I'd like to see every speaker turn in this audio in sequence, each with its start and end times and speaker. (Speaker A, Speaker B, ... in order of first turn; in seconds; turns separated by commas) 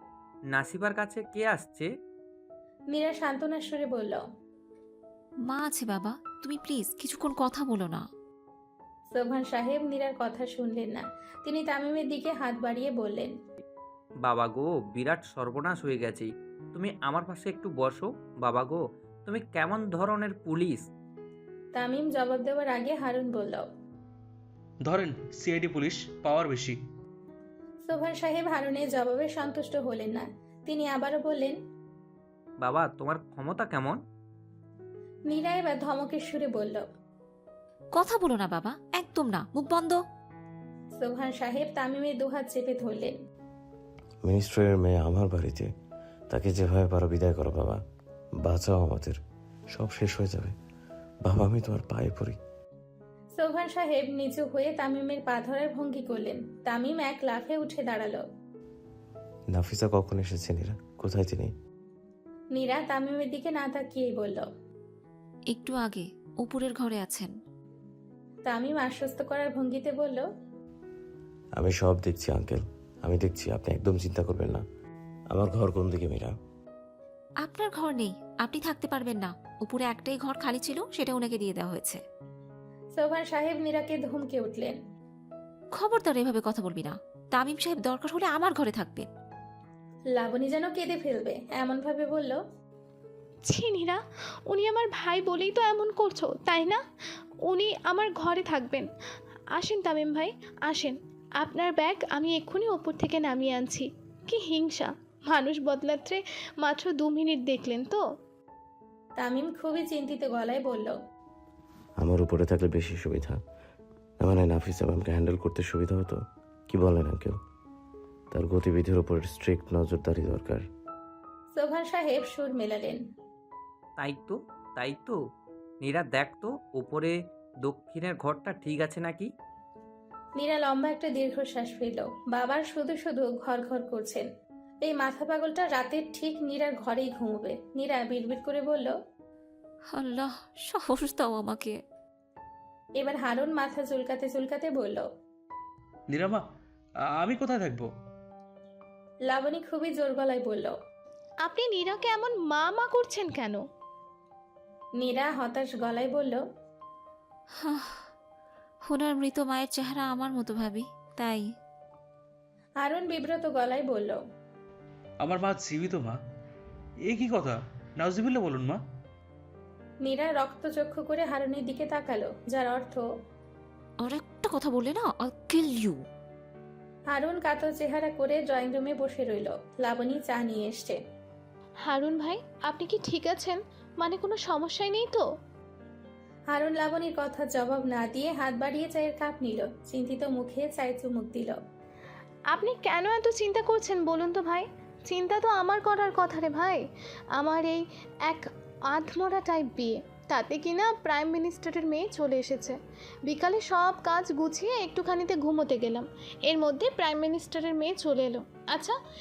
Speaker A: 0.5-1.9, Speaker B: 2.9-4.2, Speaker C: 5.5-8.0, Speaker B: 9.1-13.3, Speaker A: 14.2-20.9, Speaker B: 21.7-23.6, Speaker D: 24.8-26.8, Speaker B: 27.9-31.6, Speaker A: 32.6-34.0, Speaker B: 35.3-36.8, Speaker C: 37.9-40.0, Speaker B: 41.0-43.1, Speaker E: 44.2-45.7, Speaker E: 46.3-47.8, Speaker E: 48.4-49.2, Speaker E: 49.7-50.5, Speaker E: 51.2-52.4, Speaker B: 53.4-58.2, Speaker E: 59.5-61.5, Speaker B: 62.5-64.5, Speaker C: 65.5-67.3, Speaker B: 68.5-70.3, Speaker E: 71.6-74.6, Speaker E: 75.3-76.3, Speaker C: 77.4-82.0, Speaker B: 83.0-84.8, Speaker C: 85.7-89.1, Speaker B: 90.2-92.4, Speaker F: 93.5-96.8, Speaker F: 97.5-98.9, Speaker F: 99.5-108.0, Speaker B: 109.2-110.9, Speaker E: 112.0-113.4, Speaker E: 114.2-116.2, Speaker E: 116.7-117.4, Speaker E: 118.3-120.6, Speaker B: 121.5-123.0, Speaker A: 124.0-125.2, Speaker A: 125.8-129.3, Speaker B: 130.4-134.2, Speaker B: 134.8-138.9, Speaker C: 139.9-141.8, Speaker B: 143.0-145.0, Speaker D: 146.1-146.4, Speaker D: 147.2-147.9, Speaker B: 149.3-150.7, Speaker F: 151.4-153.6, Speaker B: 155.0-156.4, Speaker C: 157.6-158.1, Speaker C: 158.8-161.5, Speaker B: 162.8-164.2, Speaker D: 165.2-166.2, Speaker D: 167.1-168.8, Speaker B: 170.0-173.0, Speaker C: 174.0-176.0, Speaker B: 177.1-181.0, Speaker F: 181.9-185.2, Speaker B: 186.5-191.6, Speaker F: 192.5-196.8, Speaker F: 197.4-208.9